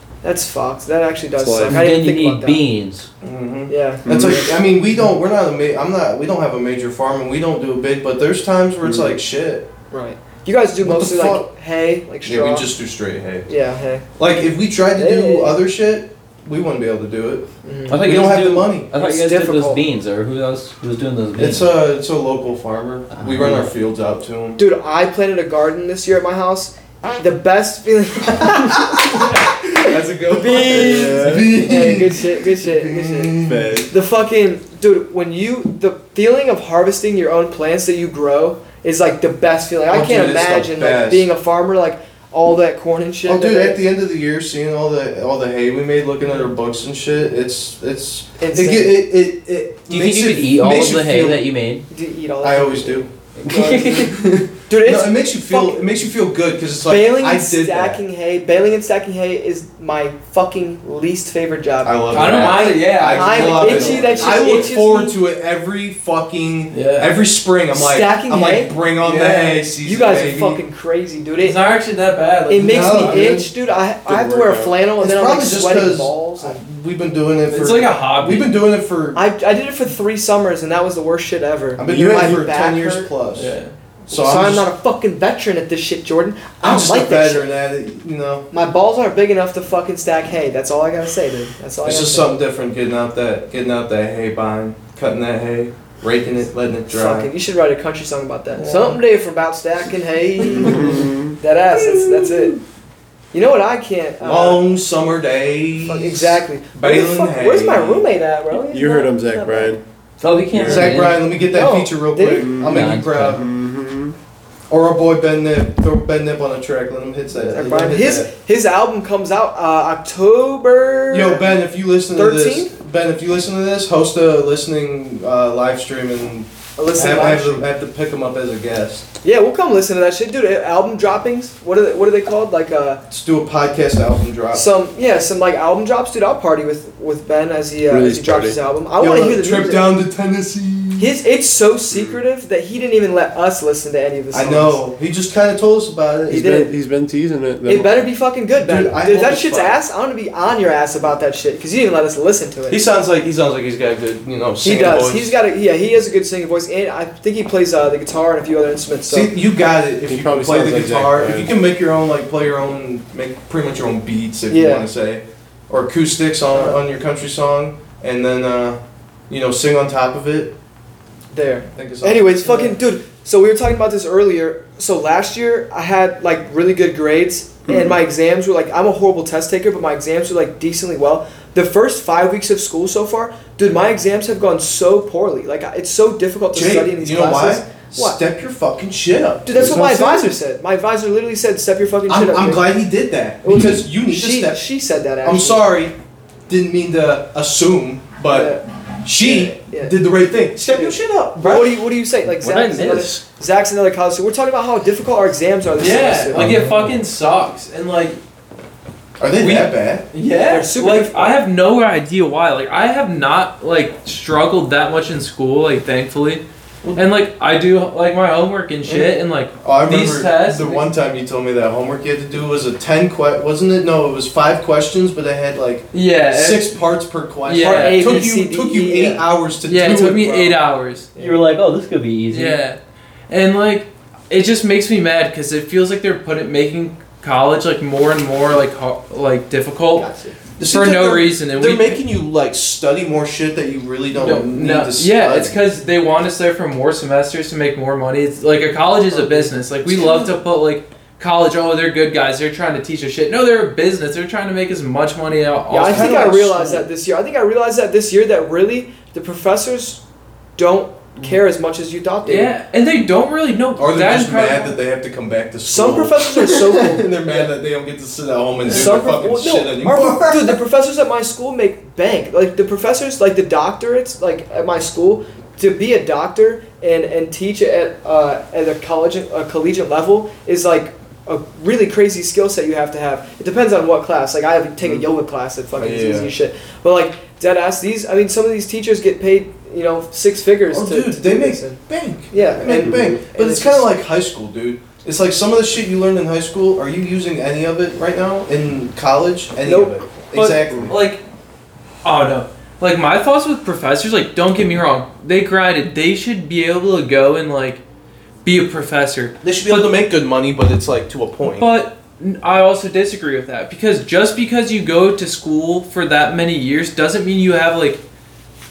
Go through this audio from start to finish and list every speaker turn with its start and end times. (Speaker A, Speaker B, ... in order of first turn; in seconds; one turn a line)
Speaker A: 0.2-2.6
Speaker B: 1.4-1.9
Speaker C: 1.7-3.1
Speaker D: 3.2-9.7
Speaker A: 3.7-4.5
Speaker B: 4.0-4.6
Speaker B: 8.8-9.2
Speaker A: 9.9-12.7
Speaker D: 10.8-11.5
Speaker D: 12.2-13.5
Speaker A: 13.5-14.1
Speaker D: 14.2-18.9
Speaker A: 14.9-15.6
Speaker A: 17.6-18.0
Speaker C: 17.9-21.7
Speaker A: 18.9-19.8
Speaker D: 21.4-24.6
Speaker A: 24.6-33.4
Speaker D: 28.9-33.8
Speaker B: 30.6-31.9
Speaker B: 33.4-33.9
Speaker A: 33.9-43.8
Speaker D: 39.9-41.3
Speaker D: 43.2-51.5
Speaker A: 48.4-49.0
Speaker C: 49.9-51.8
Speaker A: 51.9-54.0
Speaker D: 52.4-53.1
Speaker C: 53.4-54.1
Speaker D: 53.7-58.0
Speaker A: 54.7-56.0
Speaker A: 56.8-65.1
Speaker D: 61.8-70.6
Speaker E: 62.1-64.7
Speaker E: 66.7-67.2
Speaker A: 67.7-71.6
Speaker E: 69.0-69.6
Speaker E: 71.4-73.3
Speaker A: 72.5-76.6
Speaker D: 72.6-73.5
Speaker B: 74.1-74.8
Speaker D: 75.0-79.2
Speaker E: 77.5-78.5
Speaker A: 79.1-83.1
Speaker D: 81.8-83.5
Speaker B: 81.8-82.4
Speaker E: 83.3-83.7
Speaker A: 84.1-87.5
Speaker D: 84.1-84.7
Speaker D: 86.6-88.5
Speaker A: 88.5-92.4
Speaker D: 91.8-97.3
Speaker A: 96.9-102.6
Speaker E: 98.6-98.9
Speaker D: 100.4-100.9
Speaker B: 100.7-101.3
Speaker D: 101.8-102.5
Speaker A: 103.3-104.7
Speaker D: 104.2-108.1
Speaker A: 105.8-109.7
Speaker B: 108.7-109.8
Speaker C: 110.2-111.4
Speaker B: 110.5-111.1
Speaker D: 110.5-113.5
Speaker A: 111.5-112.5
Speaker B: 112.4-114.2
Speaker C: 112.6-113.4
Speaker D: 114.7-118.3
Speaker A: 117.4-121.5
Speaker D: 121.1-129.0
Speaker A: 122.1-122.7
Speaker A: 126.8-127.7
Speaker A: 129.2-133.0
Speaker D: 133.1-134.6
Speaker A: 134.5-139.9
Speaker B: 137.9-138.7
Speaker D: 139.0-141.1
Speaker A: 141.0-144.8
Speaker B: 141.9-142.2
Speaker D: 144.3-146.5
Speaker A: 146.3-146.7
Speaker B: 146.3-148.1
Speaker A: 147.6-152.8
Speaker D: 148.6-149.8
Speaker D: 152.7-155.3
Speaker A: 154.6-159.3
Speaker D: 159.1-170.5
Speaker B: 160.0-161.6
Speaker A: 164.5-164.9
Speaker A: 166.5-166.8
Speaker A: 171.3-188.2
Speaker D: 171.7-172.7
Speaker D: 186.5-190.2
Speaker A: 189.4-192.7
Speaker B: 189.6-190.2
Speaker D: 192.1-194.6
Speaker A: 193.4-195.6
Speaker D: 195.2-195.9
Speaker D: 196.5-201.8
Speaker A: 198.3-198.6
Speaker A: 199.2-200.0
Speaker A: 200.6-206.5
Speaker C: 202.3-203.2
Speaker E: 205.8-208.2
Speaker B: 206.3-207.0
Speaker D: 209.2-210.1
Speaker E: 209.4-216.4
Speaker A: 210.5-211.4
Speaker E: 216.9-220.9
Speaker D: 219.6-230.6
Speaker E: 225.9-226.8
Speaker E: 227.4-228.2
Speaker A: 227.6-229.3
Speaker E: 229.7-231.1
Speaker C: 231.2-232.6
Speaker E: 232.3-242.0
Speaker A: 239.9-240.3
Speaker D: 240.6-245.6
Speaker E: 244.1-256.3
Speaker A: 249.1-250.3
Speaker A: 255.7-260.0
Speaker D: 255.8-256.8
Speaker A: 260.6-262.5
Speaker E: 262.2-264.8
Speaker D: 263.8-270.6
Speaker A: 265.7-267.1
Speaker E: 268.6-269.0
Speaker A: 268.7-293.9
Speaker D: 285.8-286.3
Speaker D: 290.7-301.0
Speaker B: 292.8-293.2
Speaker A: 299.6-299.9
Speaker E: 300.3-301.2
Speaker E: 302.0-307.8
Speaker E: 308.4-310.0
Speaker D: 309.4-311.7
Speaker E: 311.4-318.0